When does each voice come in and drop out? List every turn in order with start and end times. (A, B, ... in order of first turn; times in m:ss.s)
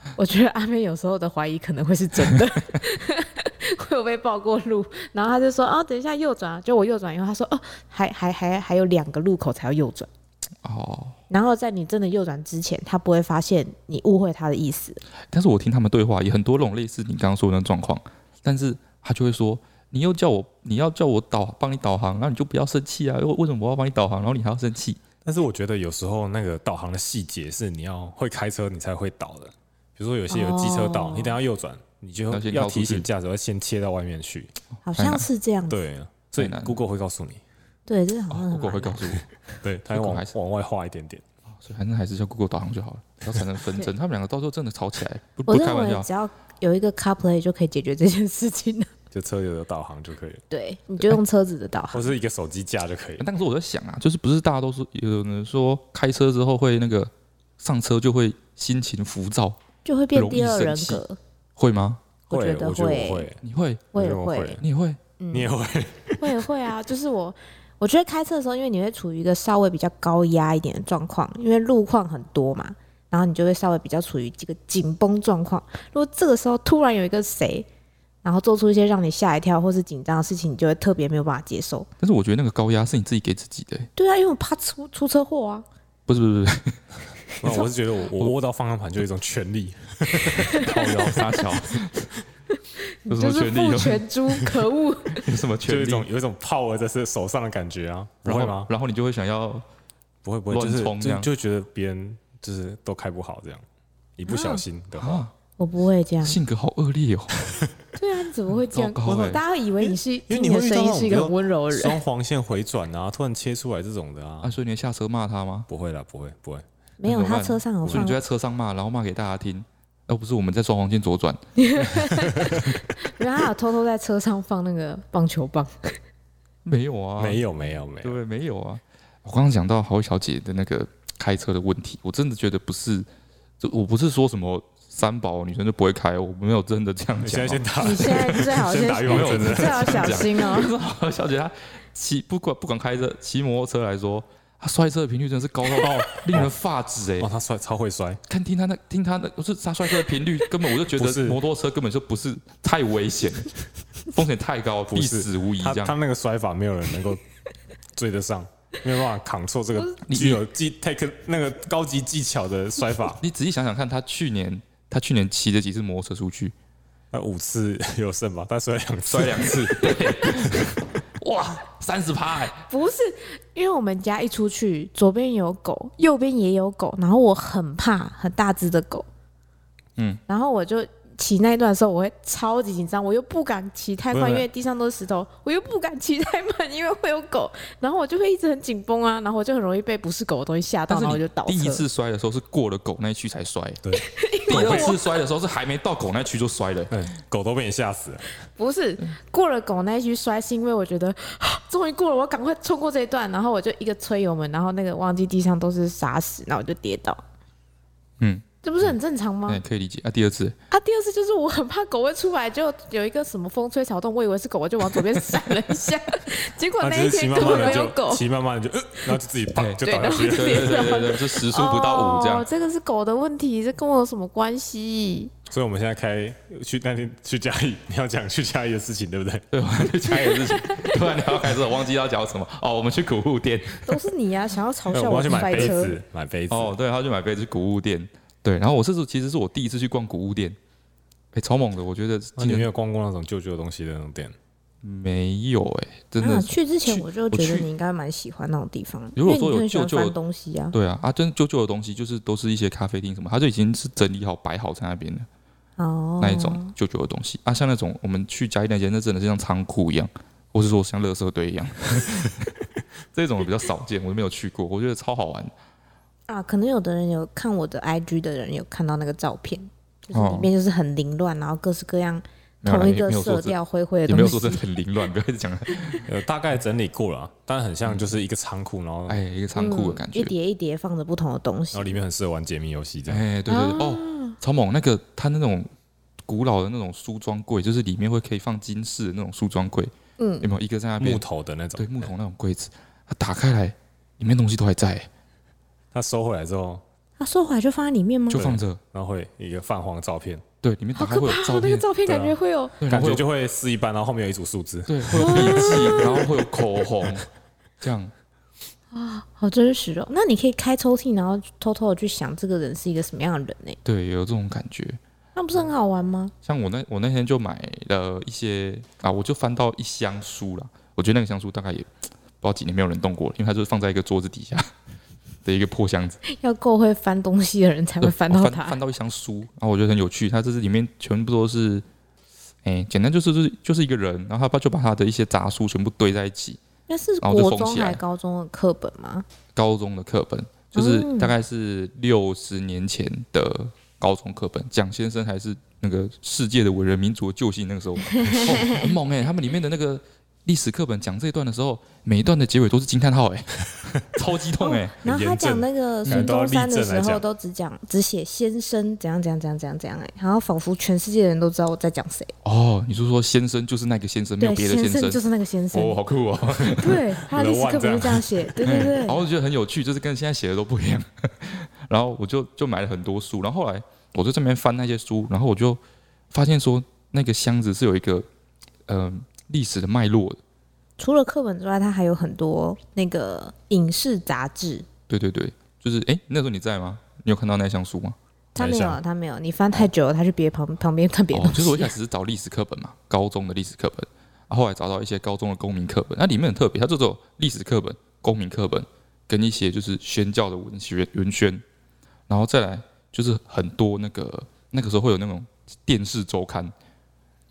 0:00.2-0:10.1 A
0:10.6-0:11.2 B
0:11.3-0:15.0 A
0:15.3-0:25.0 B
0:25.2-0:34.5 C
0:30.3-0:31.4 A
0:32.3-0:33.1 B
0:34.8-0:35.8 A
0:35.0-0:35.3 B
0:35.7-0:37.4 C
0:36.4-0:36.8 B
0:37.9-0:39.2 A
0:38.3-0:39.2 B
0:39.6-0:41.2 C
0:39.9-0:40.3 B
0:41.5-0:46.1 B
0:45.5-0:48.9 A
0:49.1-0:50.4 C
0:50.5-0:52.1 A
0:51.9-0:53.3 C
0:53.2-0:59.6 B
0:59.8-1:01.2 A
1:00.1-1:01.0 B
1:01.6-1:02.0 B
1:02.3-1:03.3 A
1:02.3-1:03.4 C
1:03.4-1:03.9 B
1:03.9-1:04.6 A
1:04.0-1:04.6 C
1:04.6-1:05.0 B
1:05.2-1:05.5 A
1:05.3-1:06.4 C
1:06.2-1:17.7 A
1:18.2-1:21.9 A
1:22.0-1:23.9 B
1:24.0-1:25.6 A
1:26.1-1:26.8 B
1:27.4-1:31.3 C
1:30.3-1:30.6 A
1:30.4-1:32.2 B
1:32.8-1:35.2 A
1:33.1-1:34.4 B
1:35.1-1:36.1 B
1:35.7-1:38.7 C
1:38.2-1:39.6 B
1:40.2-1:43.6 C
1:40.5-1:41.3 B
1:44.2-1:45.2 C
1:44.3-1:44.6 A
1:45.0-1:45.3 B
1:45.6-1:46.4 A
1:46.2-1:47.4 B
1:48.0-1:52.0 A
1:48.7-1:49.4 B
1:49.8-1:54.5 C
1:54.4-1:55.7 B
1:55.7-1:56.6 C
1:57.0-1:58.2 A
1:57.1-2:01.8 B
1:57.8-1:58.1 C
2:01.6-2:06.0 A
2:02.2-2:02.6 C
2:06.6-2:07.4 B
2:07.2-2:08.2 C
2:08.0-2:13.1 B
2:13.6-2:27.3 B
2:17.2-2:20.3 C
2:17.8-2:20.7 A
2:25.8-2:26.5 C
2:27.2-2:28.2 C
2:28.3-2:36.0 B
2:30.9-2:31.4 C
2:34.9-2:37.2 C
2:37.9-2:43.2 C
2:40.1-2:40.4 B
2:43.2-2:46.6 B
2:47.1-2:49.9 C
2:49.1-2:52.7 B
2:52.7-2:59.1 A
3:00.3-3:11.8 A
3:04.1-3:04.5 C
3:10.9-3:13.8 B
3:13.8-3:15.0 C
3:14.0-3:15.1 A
3:14.5-3:16.9 B
3:16.9-3:18.2 C
3:18.6-3:27.2 A
3:28.6-3:29.6 A
3:29.5-3:30.6 B
3:30.7-3:38.2 A
3:36.8-3:41.0 C
3:39.5-3:42.5 B
3:39.8-3:45.3 A
3:45.5-3:49.5 C
3:49.5-3:54.0 B
3:50.1-3:50.5 C
3:50.6-3:51.0 A
3:53.8-3:56.0 A
3:54.9-3:56.7 C
3:55.4-3:55.7 B
3:56.5-4:00.6 B
4:01.3-4:02.7 B
4:02.4-4:04.4 C
4:04.8-4:07.7 B
4:06.2-4:10.8 A
4:09.2-4:10.2 B
4:10.7-4:15.3 B
4:15.8-4:16.7 A
4:16.2-4:22.6 B
4:23.1-4:25.5 B
4:26.3-4:34.6 A
4:30.1-4:30.5 B
4:32.6-4:33.6 B
4:34.1-4:36.1 B
4:36.1-4:39.2 C
4:37.9-4:38.1 B
4:39.1-4:40.3 B
4:39.6-4:42.0 A
4:41.7-4:43.3 C
4:43.1-4:45.7 B
4:43.5-4:44.4 A
4:46.3-4:51.2 B
4:50.2-4:50.5 A
4:51.0-4:52.1 C
4:51.8-4:55.1 B
4:55.9-4:56.8 C
4:57.2-4:58.4 A
4:58.3-4:58.8 B
4:58.3-5:00.4 C
5:00.6-5:01.9 B
5:01.0-5:02.8 A
5:02.1-5:02.4 C
5:02.8-5:03.3 B
5:02.9-5:06.3 C
5:04.9-5:07.3 B
5:05.2-5:06.3 A
5:07.8-5:08.1 B
5:08.9-5:13.8 A
5:13.8-5:15.0 B
5:15.4-5:16.3 A
5:16.4-5:21.9 B
5:22.4-5:24.7 B
5:25.4-5:26.2 B
5:26.2-5:28.8 A
5:28.0-5:31.8 B
5:32.6-5:36.6 B
5:36.9-5:39.3 A
5:37.2-5:38.0 B
5:39.6-5:55.0 B
5:40.7-5:41.3 A
5:48.1-5:48.9 A
5:54.6-6:02.3 A
5:55.0-5:57.2 C
6:02.4-6:05.2 B
6:04.4-6:06.0 A
6:05.7-6:07.1 B
6:06.7-6:09.2 A
6:07.2-6:08.5 C
6:08.6-6:15.8 B
6:16.3-6:18.3 B
6:18.9-6:20.4 B
6:21.0-6:24.9 A
6:25.1-6:28.2 B
6:28.6-6:31.9 A
6:28.6-6:29.0 C
6:31.3-6:41.6 B
6:42.3-6:46.7 B